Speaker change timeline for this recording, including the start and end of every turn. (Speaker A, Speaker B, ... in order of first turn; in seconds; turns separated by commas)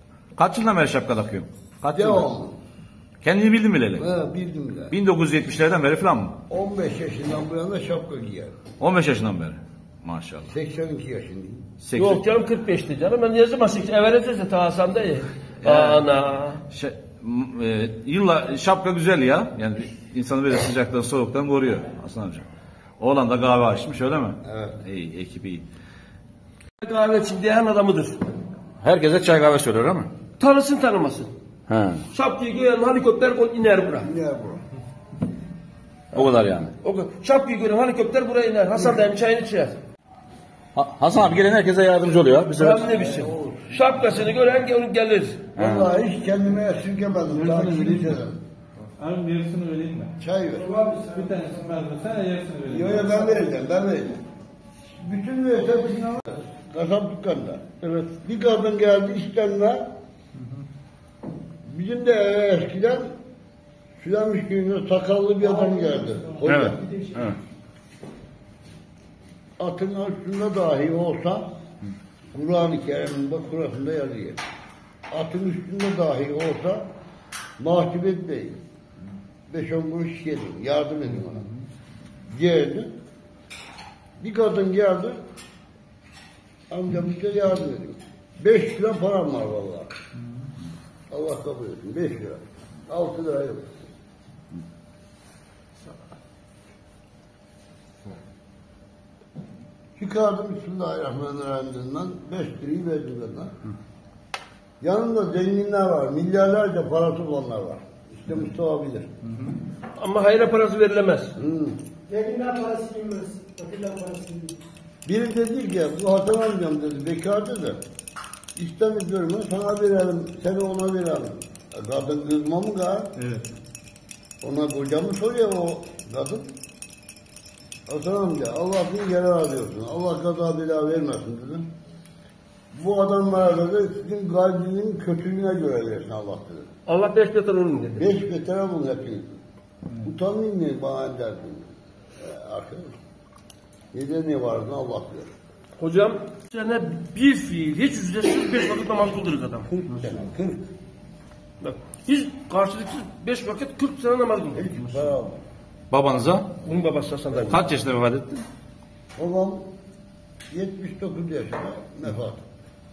Speaker A: 0.3-2.3, Speaker B: 1.9-2.5, Speaker A: 3.2-4.1, Speaker B: 4.0-4.9, Speaker A: 4.9-6.4, Speaker B: 6.5-8.5, Speaker A: 8.8-10.5, Speaker B: 10.5-11.6, Speaker A: 11.8-12.2, Speaker C: 11.9-16.6, Speaker A: 15.6-16.0, Speaker A: 16.7-22.4, Speaker A: 23.0-25.6, Speaker B: 24.4-24.8, Speaker C: 26.8-28.2, Speaker A: 28.8-30.1, Speaker C: 30.4-31.3, Speaker A: 31.7-32.0, Speaker C: 32.1-34.1, Speaker B: 34.0-34.6, Speaker A: 36.1-36.7, Speaker C: 36.8-39.8, Speaker A: 40.8-42.9, Speaker C: 42.5-45.5, Speaker B: 42.8-43.9, Speaker A: 45.5-45.9, Speaker B: 45.5-48.4, Speaker D: 49.0-50.1, Speaker B: 50.2-50.9, Speaker E: 50.8-51.3, Speaker D: 51.1-53.0, Speaker B: 52.6-54.2, Speaker B: 55.0-59.8, Speaker C: 57.8-58.1, Speaker B: 61.7-63.1, Speaker B: 64.0-66.9, Speaker A: 66.4-67.3, Speaker B: 69.6-71.5, Speaker B: 72.3-74.4, Speaker B: 75.1-76.8, Speaker B: 77.6-78.6, Speaker B: 79.5-81.5, Speaker B: 82.3-82.9, Speaker B: 84.2-85.2, Speaker B: 86.7-89.9, Speaker B: 91.1-93.9, Speaker B: 100.0-103.5, Speaker B: 104.8-109.2, Speaker C: 110.0-111.3, Speaker B: 111.4-111.8, Speaker E: 112.1-114.5, Speaker B: 115.0-117.8, Speaker B: 118.5-123.4, Speaker B: 124.4-126.5, Speaker B: 127.9-131.6, Speaker B: 132.7-136.7, Speaker C: 136.9-138.0, Speaker B: 138.0-139.3, Speaker B: 140.0-141.7, Speaker B: 142.2-142.9, Speaker B: 143.9-145.3, Speaker C: 145.8-149.7, Speaker B: 149.7-150.6, Speaker C: 151.6-155.0, Speaker B: 154.5-155.4, Speaker A: 155.9-156.5, Speaker C: 156.6-157.6, Speaker A: 157.5-158.4, Speaker B: 159.2-159.7, Speaker B: 160.5-162.4